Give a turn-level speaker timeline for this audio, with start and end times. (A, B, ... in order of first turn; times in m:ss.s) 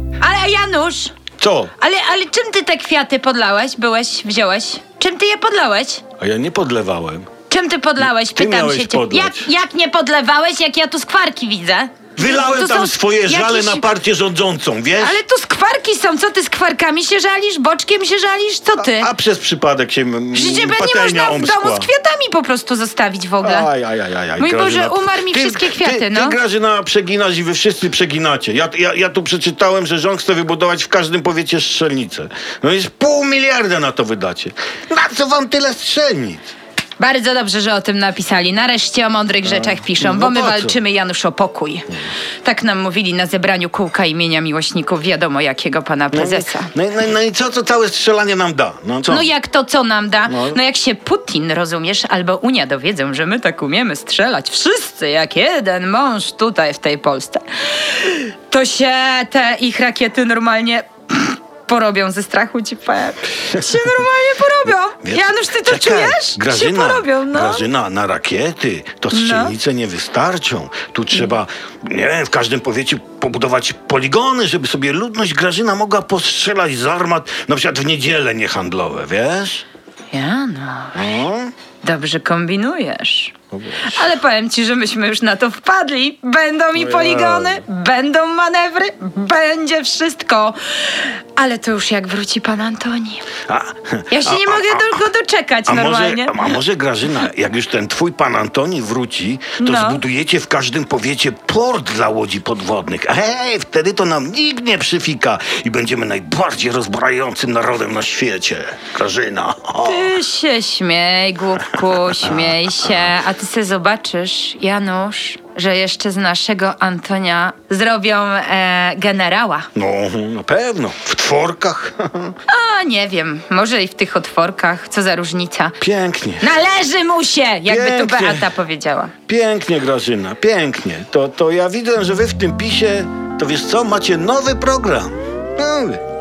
0:00.2-0:01.1 A
0:01.4-0:01.7 B
0:01.8-0:06.0 A
0:06.2-0:07.3 B
0:07.5-0:13.9 A
0:08.0-0:09.5 B
0:12.2-0:15.2 B
0:15.0-0:19.1 A
0:18.8-0:21.9 B
0:20.3-0:23.7 A
0:23.4-0:36.5 B
0:24.4-0:26.4 A
0:37.0-0:41.9 A
0:39.4-0:40.8 B
0:42.4-0:46.7 A
0:46.1-0:49.3 B
0:49.1-1:07.7 A
0:50.3-0:50.6 B
1:05.0-1:19.6 B
1:09.1-1:09.6 A
1:20.1-1:21.3 A
1:21.0-1:21.5 B
1:21.8-1:33.3 A
1:23.5-1:24.1 B
1:26.8-1:27.6 B
1:33.5-1:35.1 B
1:34.1-1:36.6 A
1:35.7-1:50.2 B
1:39.6-1:40.0 A
1:49.8-1:59.7 A
1:52.0-1:53.1 B
1:59.7-2:02.3 B
2:02.5-2:05.8 A
2:05.8-2:06.6 B
2:06.4-2:09.1 A
2:07.7-2:08.5 B
2:09.3-2:16.0 B